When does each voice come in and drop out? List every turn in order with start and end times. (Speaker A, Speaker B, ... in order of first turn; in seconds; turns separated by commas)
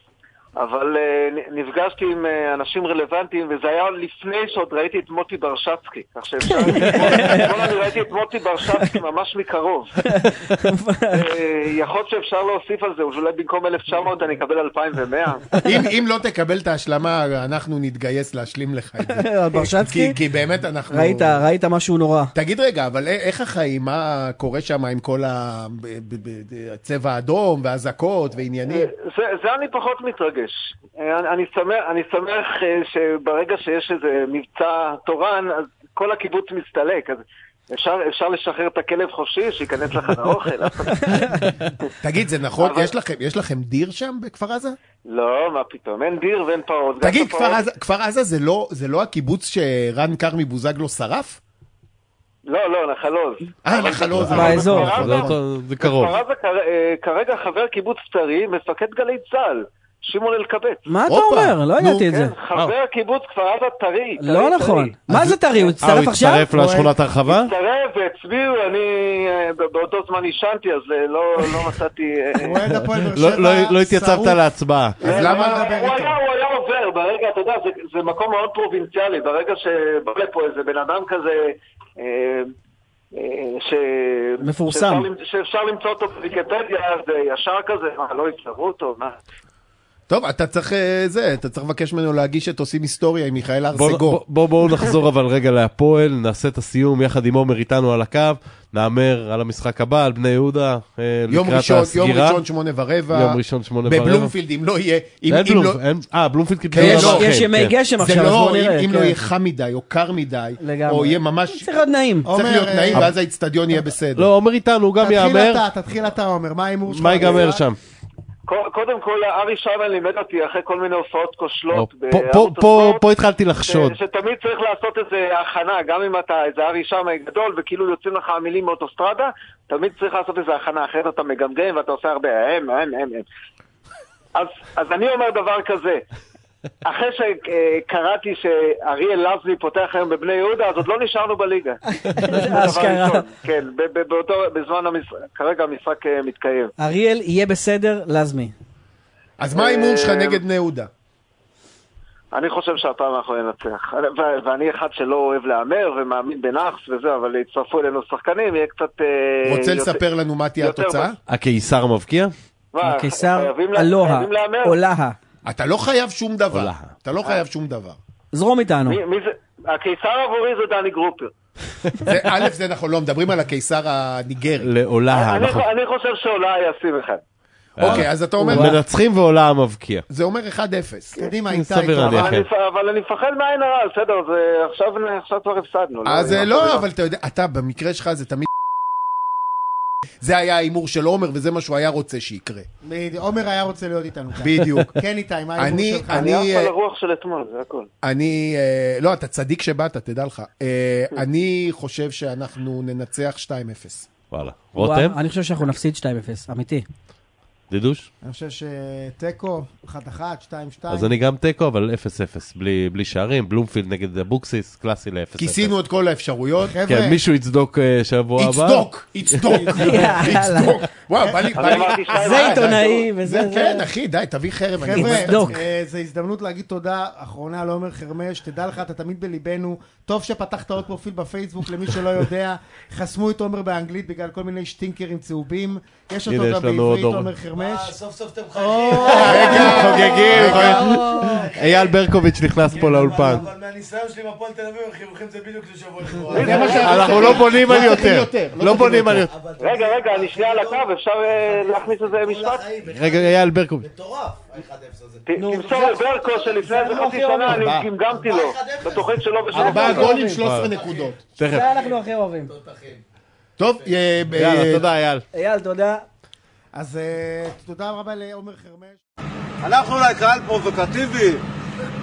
Speaker A: 0.6-10.0, Speaker B: 6.7-7.5, Speaker C: 6.9-7.5, Speaker B: 10.2-11.3, Speaker A: 11.1-15.6, Speaker C: 15.6-21.4, Speaker B: 19.1-20.1, Speaker B: 20.9-22.3, Speaker C: 22.3-28.9, Speaker A: 28.7-41.2, Speaker B: 41.1-41.5, Speaker C: 42.0-44.8, Speaker A: 42.6-42.9, Speaker A: 45.1-47.6, Speaker C: 47.0-51.4, Speaker A: 52.5-60.8, Speaker C: 53.6-55.4, Speaker D: 54.1-56.1, Speaker B: 54.3-54.9, Speaker B: 60.9-62.3, Speaker C: 61.1-62.0, Speaker A: 62.0-64.9, Speaker B: 64.2-66.6, Speaker D: 65.8-67.5, Speaker E: 66.5-66.9, Speaker A: 67.2-72.6, Speaker E: 72.4-74.4, Speaker D: 72.7-75.1, Speaker E: 75.0-76.2, Speaker A: 75.0-82.5, Speaker C: 75.0-75.5, Speaker A: 83.1-89.2, Speaker B: 84.4-85.1, Speaker C: 90.1-94.2, Speaker D: 93.7-102.4, Speaker C: 101.3-105.8, Speaker D: 103.1-104.3, Speaker D: 105.3-107.8, Speaker C: 106.7-107.3, Speaker B: 106.8-109.2, Speaker C: 107.9-111.7, Speaker B: 110.6-112.3, Speaker E: 112.2-113.1, Speaker C: 112.3-114.3, Speaker D: 114.1-115.6, Speaker E: 115.0-117.7, Speaker D: 116.9-117.8, Speaker A: 118.5-123.0, Speaker D: 121.7-124.0, Speaker A: 123.6-133.2, Speaker A: 134.3-136.0, Speaker A: 136.9-146.7, Speaker B: 142.0-143.2, Speaker B: 146.8-148.5, Speaker C: 149.4-150.9, Speaker A: 149.5-150.4, Speaker A: 152.3-160.0, Speaker C: 159.4-161.2, Speaker A: 160.6-161.1, Speaker D: 161.3-162.3, Speaker A: 162.7-164.8, Speaker B: 162.8-165.2, Speaker C: 165.4-168.0, Speaker D: 166.5-166.9, Speaker B: 168.3-169.0, Speaker A: 168.8-171.3, Speaker C: 172.0-174.7, Speaker D: 174.6-175.7, Speaker A: 175.1-177.2, Speaker D: 177.8-180.0, Speaker C: 177.8-178.8, Speaker C: 180.1-181.3, Speaker E: 181.2-182.3, Speaker D: 181.5-182.5, Speaker A: 182.0-186.8, Speaker C: 186.0-188.5, Speaker C: 190.2-192.7, Speaker E: 192.8-196.3, Speaker C: 194.4-194.9, Speaker C: 195.6-196.7, Speaker A: 196.1-197.9, Speaker C: 198.0-204.1, Speaker D: 204.3-205.2, Speaker B: 204.7-206.8, Speaker D: 207.7-208.1, Speaker E: 208.2-211.1, Speaker D: 210.9-215.7, Speaker C: 215.4-216.8, Speaker E: 216.6-217.2, Speaker D: 216.8-219.8, Speaker C: 218.4-225.6, Speaker E: 219.5-220.4, Speaker B: 219.7-220.7, Speaker A: 221.5-223.1, Speaker B: 222.1-223.9, Speaker E: 224.8-237.9, Speaker B: 225.0-225.6, Speaker D: 236.2-237.3, Speaker F: 237.6-247.9, Speaker E: 238.5-241.0, Speaker D: 239.1-243.5, Speaker C: 239.1-241.0, Speaker A: 246.3-247.4, Speaker C: 246.3-249.3, Speaker E: 246.6-247.1, Speaker D: 246.7-249.3, Speaker F: 248.7-250.8, Speaker A: 249.6-252.8, Speaker F: 251.5-256.9, Speaker D: 252.8-253.9, Speaker A: 255.3-260.1, Speaker B: 255.4-255.9, Speaker B: 256.6-257.7, Speaker F: 258.1-259.1, Speaker B: 259.5-260.4, Speaker C: 259.5-261.2, Speaker D: 260.3-260.7, Speaker D: 261.3-261.7, Speaker B: 261.5-262.5, Speaker F: 261.5-262.0, Speaker F: 262.5-263.0, Speaker C: 263.6-264.8, Speaker D: 264.3-265.2, Speaker B: 265.3-266.0, Speaker E: 266.7-269.0, Speaker F: 269.6-271.4